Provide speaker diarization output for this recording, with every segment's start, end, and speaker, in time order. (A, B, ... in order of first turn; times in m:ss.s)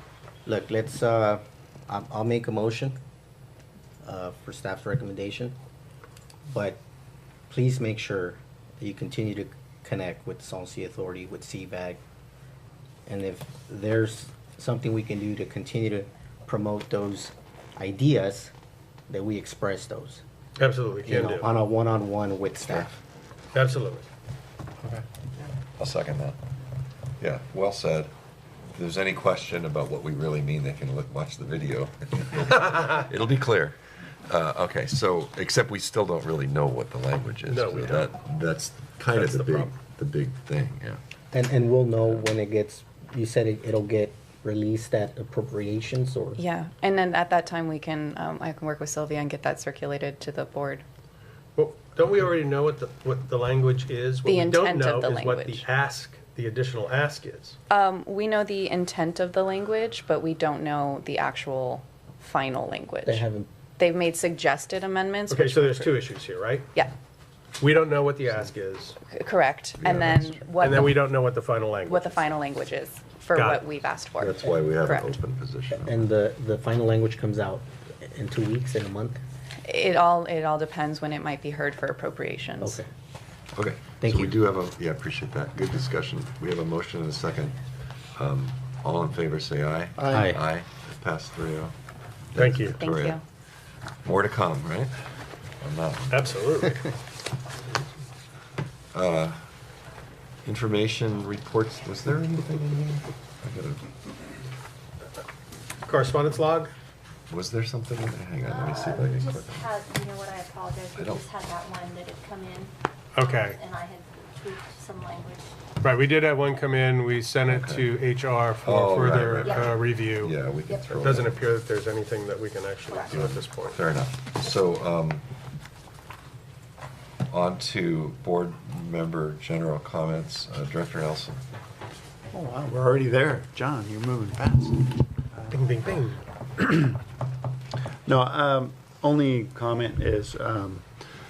0:00.5-0:03.0 A
0:04.0-0:05.6 A
0:06.5-0:06.8 A
0:07.5-0:12.0 A
0:13.1-0:18.5 A
0:19.1-0:20.2 A
0:20.6-0:21.5 B
0:21.1-0:23.0 A
0:23.5-0:24.1 B
0:25.8-0:26.4 C
0:27.2-0:28.1 C
0:28.8-0:41.0 C
0:37.5-0:38.1 B
0:39.1-0:39.7 B
0:41.3-0:46.4 A
0:46.4-0:50.8 D
0:51.6-0:57.6 B
0:54.3-0:55.7 D
0:57.7-1:03.3 D
1:03.1-1:03.5 A
1:03.8-1:06.1 D
1:05.3-1:06.7 B
1:07.6-1:09.0 B
1:09.1-1:11.1 D
1:09.8-1:10.7 C
1:10.6-1:12.2 B
1:11.9-1:15.1 D
1:13.3-1:13.6 B
1:14.2-1:16.0 C
1:15.7-1:19.2 A
1:19.6-1:22.8 D
1:22.6-1:22.9 A
1:23.6-1:27.6 C
1:24.0-1:24.4 A
1:28.2-1:31.7 C
1:30.0-1:30.4 A
1:32.3-1:33.2 C
1:32.4-1:32.8 B
1:32.8-1:33.2 D
1:34.0-1:34.9 C
1:35.6-1:36.3 C
1:36.1-1:36.8 B
1:38.9-1:39.4 C
1:40.4-1:43.9 C
1:45.9-1:46.7 B
1:47.3-1:49.7 C
1:48.4-1:55.6 E
1:51.0-1:51.3 C
1:53.2-1:53.6 B
1:55.8-2:00.3 B
1:57.5-1:57.9 C
1:58.6-2:01.3 C
1:59.4-1:59.8 E
2:00.6-2:01.2 E
2:01.0-2:03.8 B
2:02.9-2:03.3 E
2:03.1-2:05.2 C
2:07.3-2:11.4 C
2:12.3-2:15.6 F
2:15.5-2:16.2 B
2:16.6-2:17.0 F
2:18.0-2:20.9 F